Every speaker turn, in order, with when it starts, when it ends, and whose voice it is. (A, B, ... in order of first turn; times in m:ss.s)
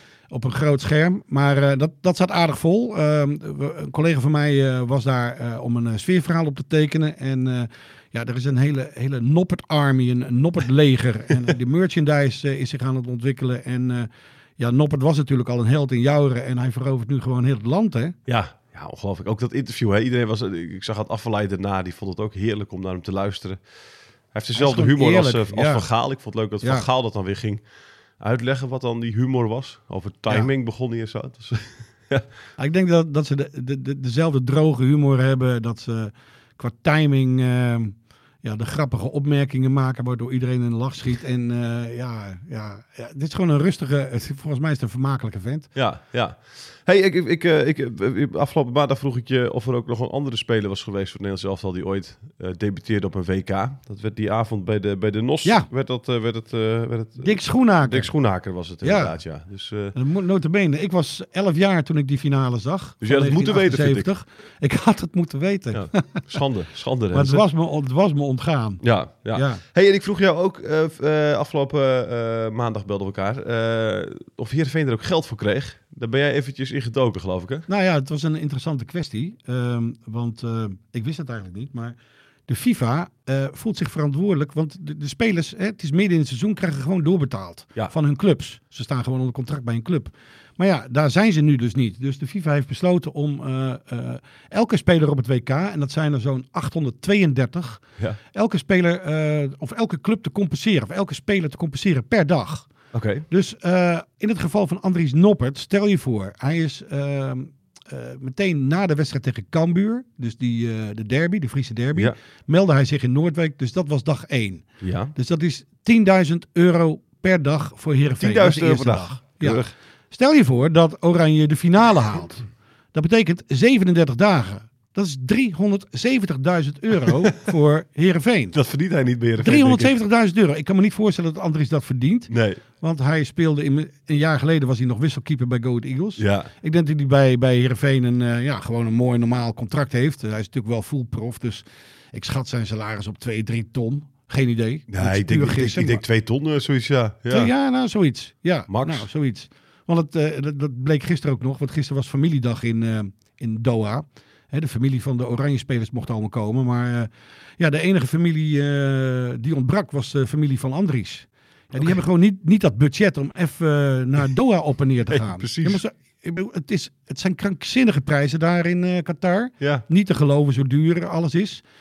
0:00.3-0:18.2 A
0:18.3-0:32.3 B
0:24.5-0:26.9 A
0:32.6-0:45.8 A
0:45.7-0:59.9 B
0:55.4-0:55.7 A
0:57.2-0:59.3 A
0:59.9-1:06.4 A
1:03.0-1:04.1 B
1:05.7-1:07.4 B
1:07.1-1:09.6 A
1:08.8-1:17.6 B
1:17.7-2:08.6 A
1:42.9-1:43.2 B
1:54.8-1:55.1 B
1:58.2-1:59.7 B
2:08.5-2:09.9 B
2:09.4-2:26.0 A
2:12.3-2:12.6 B
2:16.2-2:16.5 B
2:24.9-2:27.5 B
2:27.3-2:51.6 A
2:28.7-2:29.1 B
2:45.1-2:45.8 B